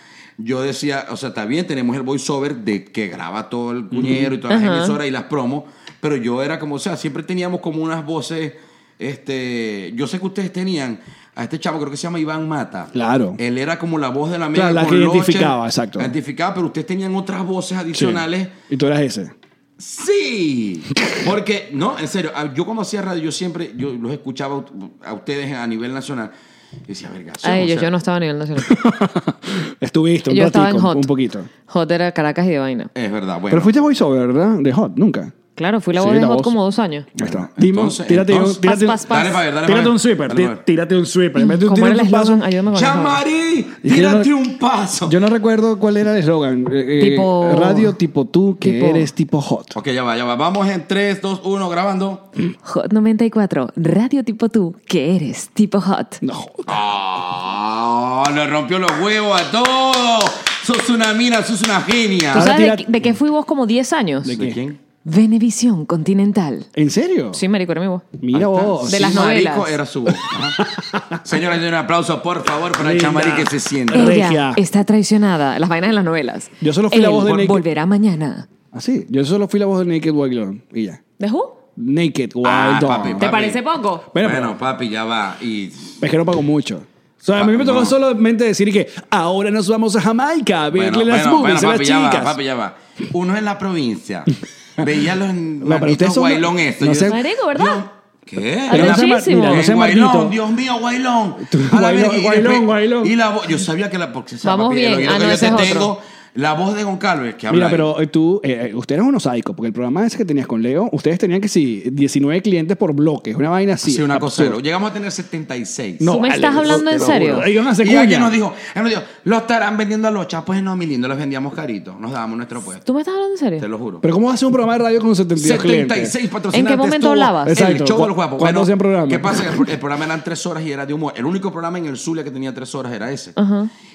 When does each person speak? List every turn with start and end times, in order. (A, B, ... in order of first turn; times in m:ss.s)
0:00.4-0:18.5 A
0:03.9-0:04.3 B
0:04.5-0:05.0 C
0:12.9-0:13.4 B
0:14.5-0:16.1 B
0:17.9-0:19.3 B
0:19.8-0:26.3 A
0:26.9-0:27.9 A
0:27.4-0:28.8 C
0:28.6-0:31.5 B
0:30.3-0:31.1 C
0:31.7-0:32.9 C
0:33.0-0:33.7 A
0:33.5-0:35.3 B
0:35.6-0:37.1 C
0:35.9-0:36.6 B
0:37.2-0:42.4 B
0:37.2-0:40.6 A
0:38.6-0:39.4 C
0:41.4-0:43.2 C
0:42.7-0:45.2 A
0:43.8-0:44.3 B
0:45.0-0:49.8 B
0:47.0-0:48.0 C
0:48.6-0:49.1 C
0:49.7-0:52.3 A
0:52.6-0:56.2 C
0:56.2-0:56.8 B
0:56.7-1:02.5 A
1:02.3-1:03.0 B
1:02.3-1:04.4 C
1:04.3-1:04.6 B
1:04.3-1:04.8 A
1:05.0-1:06.7 C
1:06.8-1:07.4 B
1:07.3-1:08.1 C
1:08.2-1:09.1 B
1:08.3-1:14.3 A
1:08.9-1:09.8 C
1:10.6-1:11.2 B
1:12.8-1:14.6 B
1:13.9-1:18.5 C
1:16.6-1:17.6 B
1:18.7-1:21.0 B
1:21.2-1:21.6 C
1:21.8-1:23.3 B
1:22.4-1:23.6 A
1:23.2-1:24.1 C
1:24.1-1:24.6 B
1:24.2-1:26.0 A
1:26.0-1:32.4 B
1:27.3-1:28.0 A
1:30.7-1:47.9 A
1:35.6-1:37.2 B
1:37.1-1:37.8 C
1:38.7-1:39.7 C
1:38.7-1:40.4 B
1:41.4-1:43.2 B
1:44.4-1:45.9 C
1:47.5-1:54.6 B
1:53.8-2:02.9 A
1:56.0-1:58.4 B
1:56.1-1:57.5 C
2:02.9-2:03.7 C
2:03.6-2:04.0 A
2:04.0-2:06.1 B
2:05.4-2:13.4 A
2:06.5-2:07.6 C
2:07.5-2:09.6 B
2:13.4-2:13.7 C